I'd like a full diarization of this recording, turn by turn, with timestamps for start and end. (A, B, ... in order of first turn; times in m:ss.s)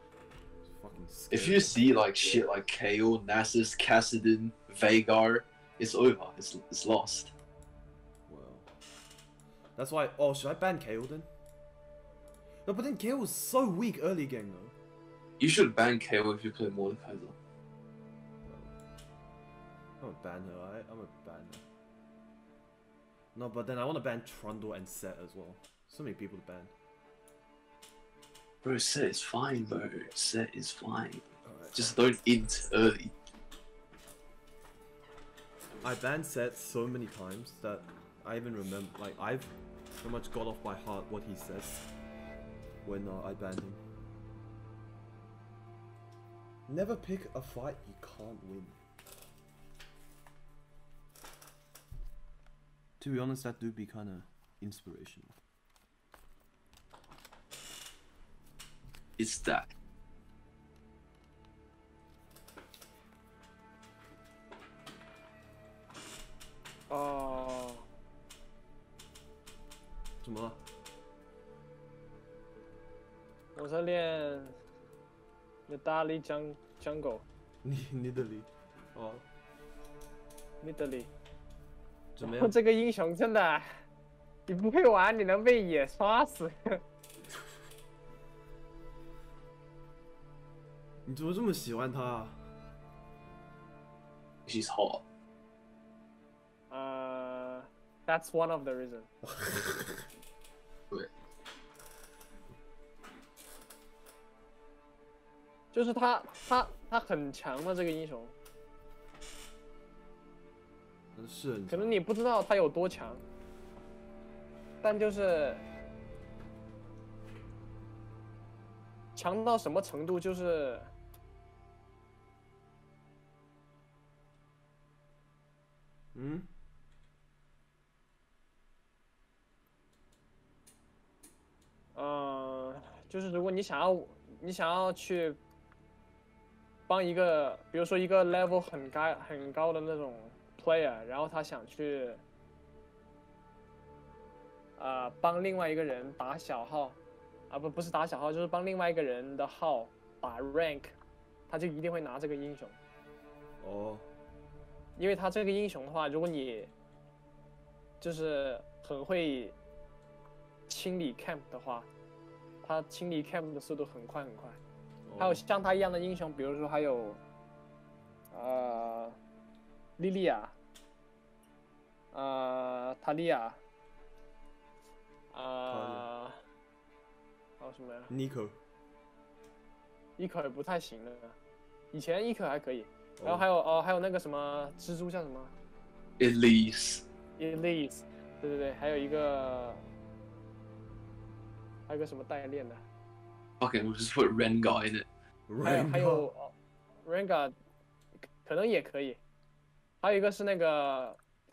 0:00.6-0:02.4 A
0:01.3-0:07.3 B
0:08.3-0:08.7 A
0:09.8-0:11.3 A
0:12.6-0:14.7 A
0:15.4-0:17.4 B
0:18.5-0:18.7 A
0:20.0-0:21.6 A
0:23.3-0:26.7 A
0:28.6-0:33.1 B
0:31.4-0:31.8 A
0:35.8-0:41.8 A
0:42.8-0:43.8 A
0:46.7-0:48.8 A
0:53.0-0:55.3 A
0:59.2-0:59.7 B
1:06.9-1:07.8 C
1:10.2-1:10.6 A
1:13.5-1:14.6 C
1:15.7-1:17.2 C
1:17.6-1:19.2 A
1:20.6-1:21.1 C
1:22.2-1:22.5 A
1:22.2-1:23.8 C
1:24.5-1:26.8 C
1:31.0-1:32.4 A
1:34.4-1:35.0 B
1:36.7-1:39.1 C
1:39.3-1:39.8 A
1:45.7-1:48.3 C
1:51.1-1:51.9 A
1:51.7-1:53.2 C
1:54.8-1:55.6 C
1:59.2-2:00.9 C
2:06.1-2:06.5 A
2:11.9-2:15.4 C
2:16.9-2:22.2 C
2:24.8-2:27.0 C
2:27.5-2:30.9 C
2:31.5-2:32.8 C
2:33.6-2:34.1 A
2:35.0-2:36.7 C
2:38.0-2:39.5 C
2:40.7-2:41.9 C
2:42.6-2:44.6 C
2:45.0-2:45.4 A
2:45.2-2:47.2 C
2:48.3-2:49.2 C
2:50.0-2:50.5 C
2:52.1-2:53.6 C
2:55.3-2:56.4 C
2:55.7-2:56.0 A
2:57.6-2:58.1 C
2:58.1-2:58.6 A
3:00.2-3:01.4 C
3:01.9-3:05.5 C
3:03.2-3:03.4 A
3:06.2-3:07.0 B
3:07.4-3:09.8 C
3:11.9-3:12.8 C
3:13.6-3:15.1 B
3:15.5-3:16.3 A
3:15.6-3:16.5 C
3:17.0-3:17.5 C
3:18.2-3:19.2 C
3:20.0-3:21.2 C